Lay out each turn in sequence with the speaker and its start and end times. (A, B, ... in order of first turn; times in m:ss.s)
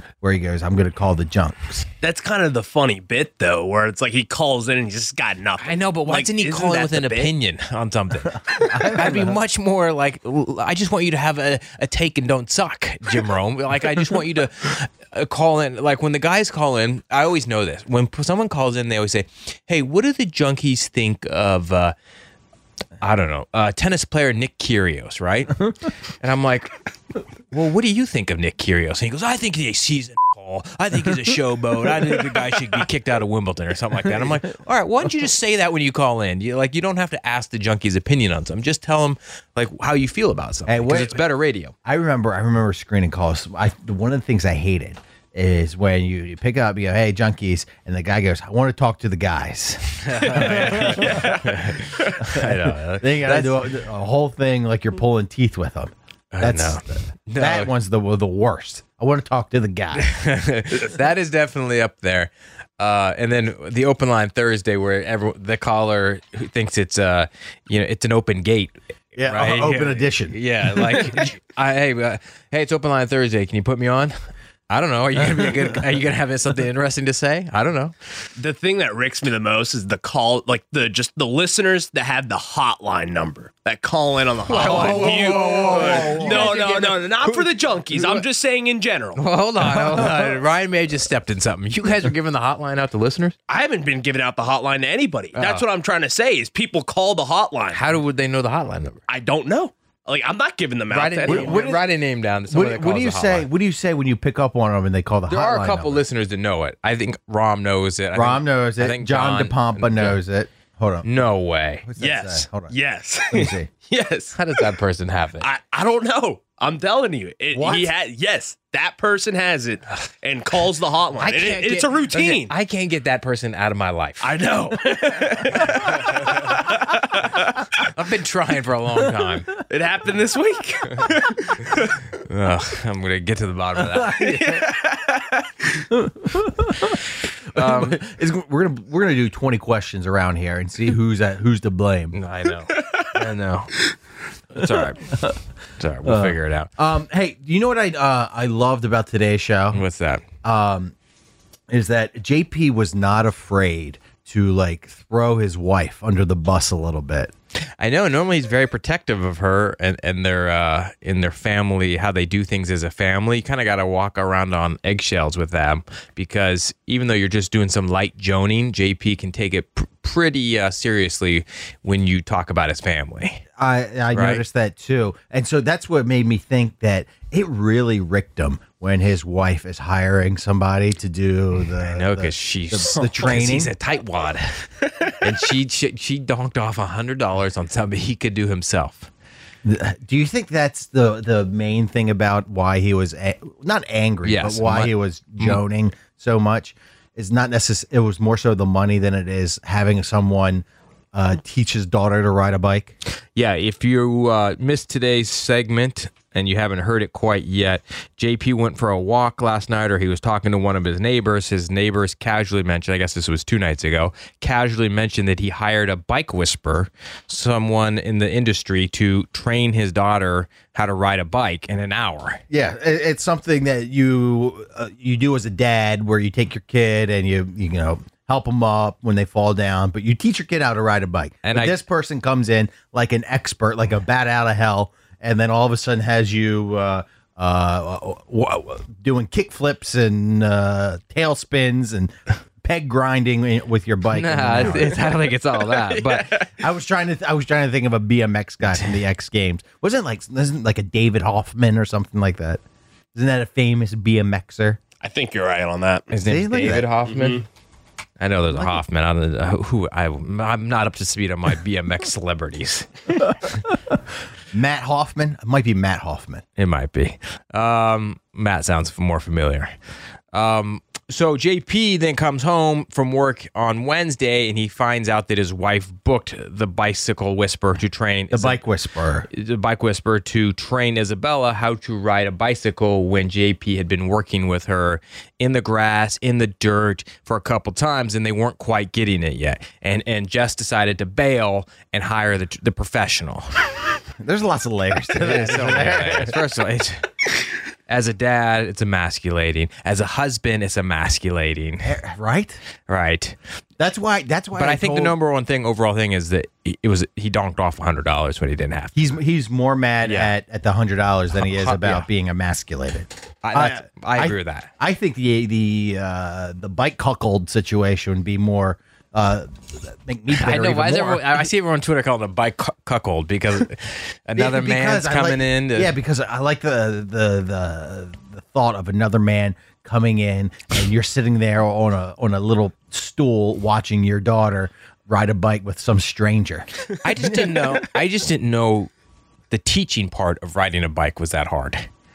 0:00.2-0:01.9 A
0:02.0-0:07.3 B
0:05.6-0:21.9 C
0:08.5-0:09.4 A
0:23.0-0:26.8 C
0:27.5-0:41.7 C
0:40.7-0:41.2 A
0:41.8-0:51.4 A
0:50.0-0:53.8 C
0:50.2-0:52.2 B
0:52.3-1:00.1 A
0:56.3-0:57.7 C
1:00.0-1:14.1 C
1:09.2-1:10.4 A
1:14.7-1:17.9 C
1:18.4-1:29.2 B
1:24.5-1:26.6 A
1:24.5-1:28.2 C
1:29.2-1:33.4 C
1:29.9-1:30.1 A
1:33.5-1:37.8 B
1:35.3-1:35.6 C
1:37.7-1:39.0 C
1:39.1-1:41.7 B
1:40.9-1:43.5 C
1:41.2-1:41.8 A
1:42.5-1:46.0 A
1:45.3-1:50.2 C
1:48.1-1:51.1 A
1:51.0-1:51.9 C
1:51.8-1:52.8 A
1:52.0-1:54.4 B
1:53.3-1:53.7 A
1:54.3-1:55.5 C
1:55.4-2:02.5 B
1:57.5-1:57.9 A
2:01.2-2:04.4 C
2:04.2-2:07.6 B
2:05.7-2:06.5 C
2:07.9-2:09.5 C
2:09.7-2:11.8 B
2:12.3-2:14.3 C
2:14.2-2:15.5 B
2:14.2-2:14.6 A
2:16.1-2:16.8 A
2:17.5-2:18.0 C
2:17.6-2:22.2 A
2:22.1-2:23.7 C
2:24.5-2:25.1 C
2:25.8-2:26.7 C
2:26.0-2:29.8 A
2:29.7-2:30.2 C
2:30.4-2:30.9 A
2:31.7-2:37.3 A
2:37.8-2:53.4 C
2:53.6-3:03.7 A
2:54.1-2:54.4 C
3:01.8-3:09.1 C
3:09.6-3:22.9 A
3:14.2-3:15.6 C
3:23.3-3:42.4 C
3:42.5-4:05.2 A
3:51.4-3:51.8 C
4:04.1-4:06.5 C
4:06.4-4:12.6 A
4:13.1-4:14.8 A
4:15.0-4:16.1 B
4:16.1-4:17.4 C
4:16.2-4:16.9 A
4:17.1-4:17.4 B
4:18.2-4:22.9 C
4:24.5-4:26.4 A
4:26.6-4:29.7 C
4:30.3-4:38.6 C
4:38.3-4:39.3 A
4:39.3-4:53.5 C
4:54.2-4:56.4 A
4:55.2-4:57.1 C
4:57.9-5:02.0 C
5:01.8-5:02.6 A
5:02.9-5:03.3 C
5:03.8-5:05.2 A
5:04.6-5:09.0 C
5:08.9-5:21.4 A
5:10.0-5:10.3 C
5:11.4-5:12.1 C
5:13.4-5:14.7 C
5:20.3-5:25.9 C
5:24.4-5:36.7 A
5:37.0-5:38.9 C
5:39.5-5:41.9 C